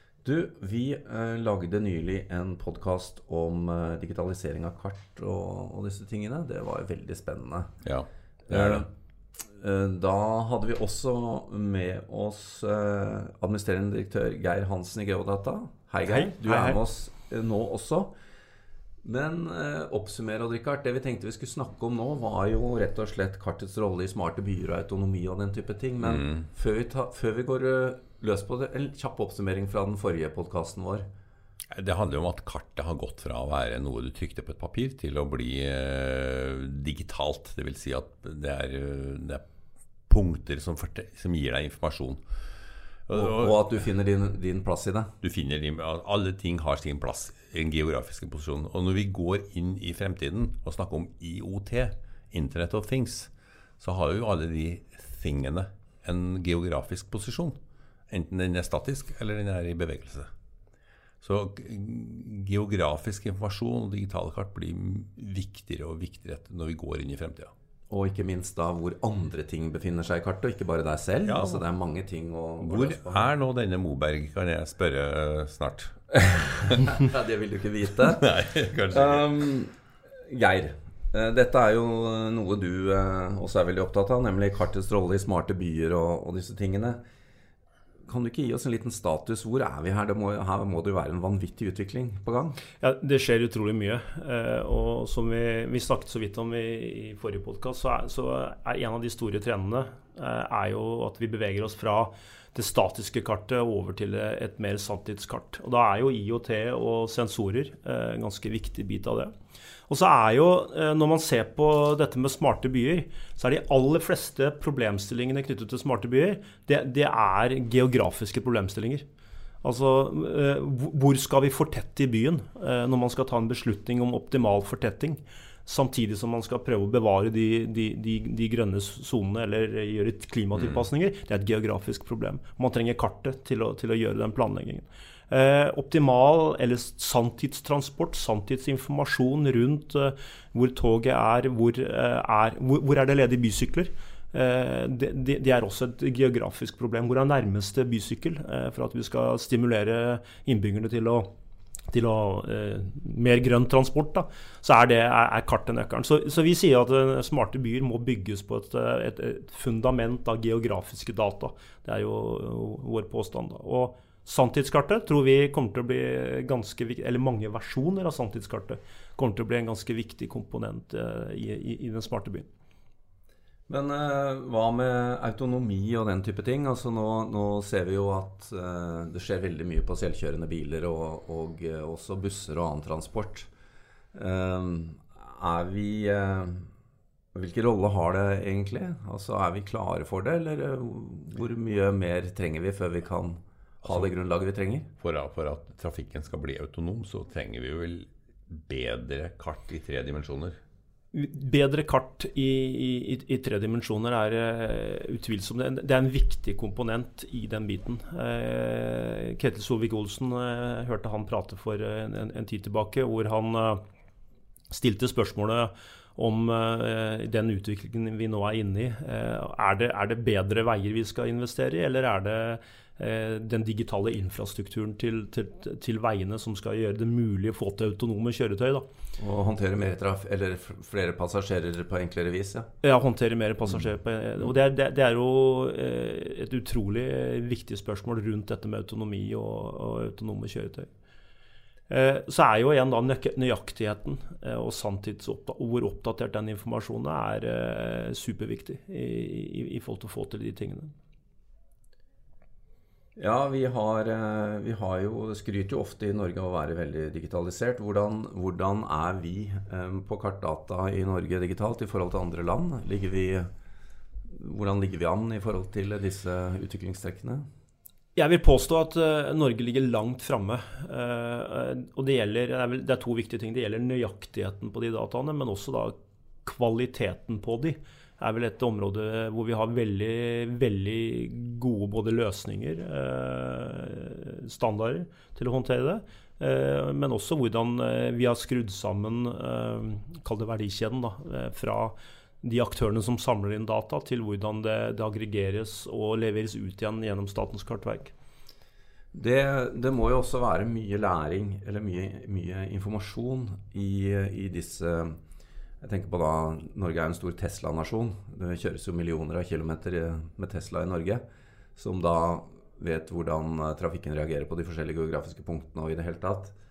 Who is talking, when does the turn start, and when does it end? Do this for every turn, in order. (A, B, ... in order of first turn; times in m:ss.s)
0:00.2-0:07.7 A
0:07.8-0:08.8 B
0:08.5-0:08.9 A
0:09.4-0:18.1 A
0:16.0-0:16.8 C
0:19.0-0:31.0 A
0:26.0-0:26.4 B
0:31.7-0:39.4 B
0:40.1-0:42.2 B
0:43.1-0:43.6 B
0:43.1-0:45.1 A
0:45.2-0:57.6 B
0:58.1-1:00.3 B
1:01.2-1:07.5 B
1:07.9-1:13.3 A
1:11.2-1:11.6 B
1:12.6-1:16.9 B
1:16.7-1:18.2 A
1:18.0-1:19.3 B
1:18.9-1:19.7 A
1:20.2-1:27.0 A
1:28.0-1:32.6 A
1:32.8-1:49.3 C
1:49.9-1:59.0 C
1:59.6-2:31.3 C
2:10.6-2:10.8 B
2:31.9-2:52.5 C
2:53.7-3:03.5 A
3:04.1-3:06.7 A
3:07.3-3:14.9 A
3:13.8-3:14.1 B
3:15.0-3:20.6 B
3:21.1-3:33.8 C
3:34.7-3:48.8 C
3:49.2-3:52.7 A
3:52.8-4:00.9 C
4:01.9-4:10.9 C
4:13.2-4:23.5 A
4:24.3-4:27.4 A
4:28.2-4:58.1 C
4:59.1-5:05.2 A
5:05.8-5:11.2 A
5:11.8-5:16.5 A